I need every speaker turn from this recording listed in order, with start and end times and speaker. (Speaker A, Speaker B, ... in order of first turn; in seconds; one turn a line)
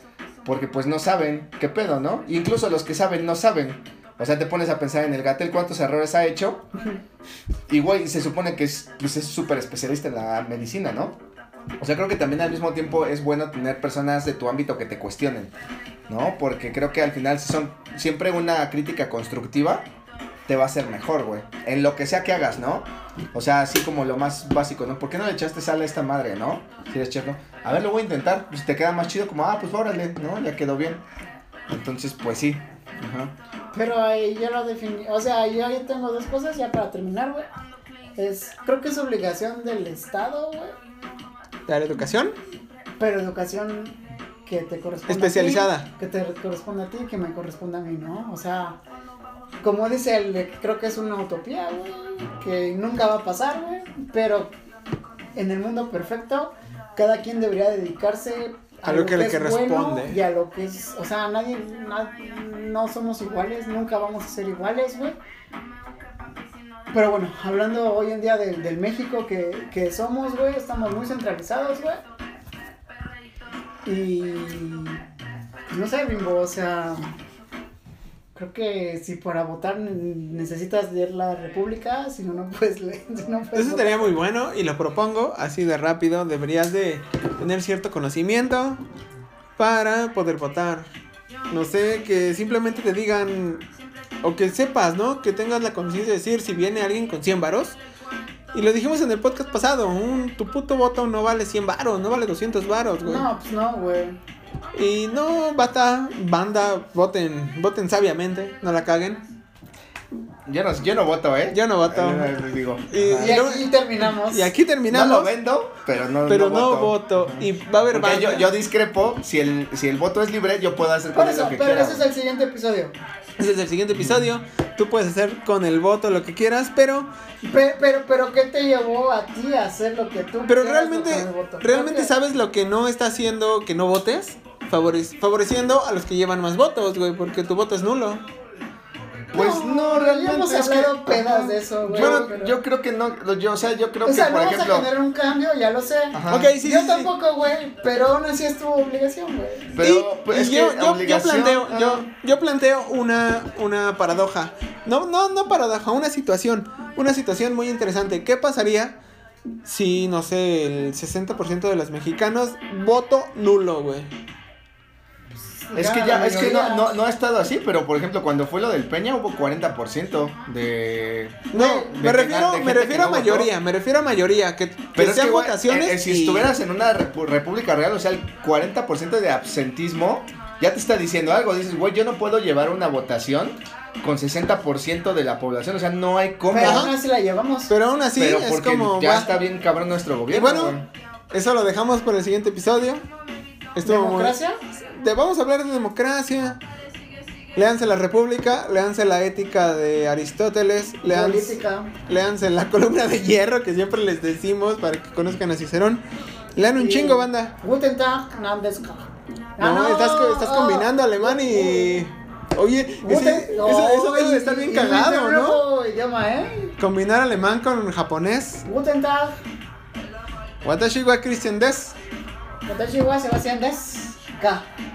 Speaker A: 0.4-6.7
Speaker A: 7.7-11.2
Speaker A: 11.8-15.5
Speaker A: 16.1-19.8
Speaker A: 20.5-31.0
Speaker A: 31.7-33.3
Speaker B: 33.7-37.5
Speaker B: 38.2-40.7
Speaker C: 41.7-42.3
Speaker B: 43.0-48.8
Speaker C: 45.1-45.9
Speaker B: 49.6-54.5
Speaker B: 55.4-65.2
Speaker C: 58.9-60.2
Speaker B: 66.9-72.0
Speaker B: 73.8-75.0
Speaker B: 75.7-77.1
Speaker B: 78.3-84.2
Speaker C: 83.5-88.8
Speaker C: 89.6-90.9
Speaker C: 91.5-93.6
Speaker C: 94.2-97.8
Speaker C: 98.5-103.3
Speaker B: 103.0-104.2
Speaker C: 104.7-109.2
Speaker A: 110.5-113.4
Speaker C: 111.5-112.4
Speaker C: 112.9-115.3
Speaker B: 113.2-114.5
Speaker A: 114.9-122.0
Speaker C: 116.3-118.5
Speaker B: 121.1-122.9
Speaker C: 123.4-127.1
Speaker A: 124.0-124.3
Speaker B: 127.4-132.1
Speaker C: 130.5-138.2
Speaker B: 139.3-142.5
Speaker A: 139.3-144.9
Speaker C: 141.9-142.3
Speaker B: 144.0-149.7
Speaker A: 146.1-146.5
Speaker C: 146.3-147.1
Speaker A: 149.7-152.0
Speaker C: 149.8-158.9
Speaker C: 159.6-164.1
Speaker B: 165.3-166.9
Speaker A: 165.8-173.5
Speaker B: 171.5-172.0
Speaker C: 171.5-176.5
Speaker A: 174.9-186.9
Speaker B: 186.5-187.7
Speaker C: 186.6-186.9
Speaker C: 187.7-189.4
Speaker A: 188.2-190.9
Speaker C: 190.3-190.8
Speaker C: 191.3-193.0
Speaker C: 193.7-196.6
Speaker B: 193.8-194.6
Speaker C: 197.6-207.5
Speaker B: 201.0-201.9
Speaker B: 206.7-212.0
Speaker C: 209.6-215.6
Speaker B: 213.0-216.8
Speaker C: 216.8-218.7
Speaker B: 218.7-219.4
Speaker C: 220.6-221.9
Speaker B: 222.7-224.7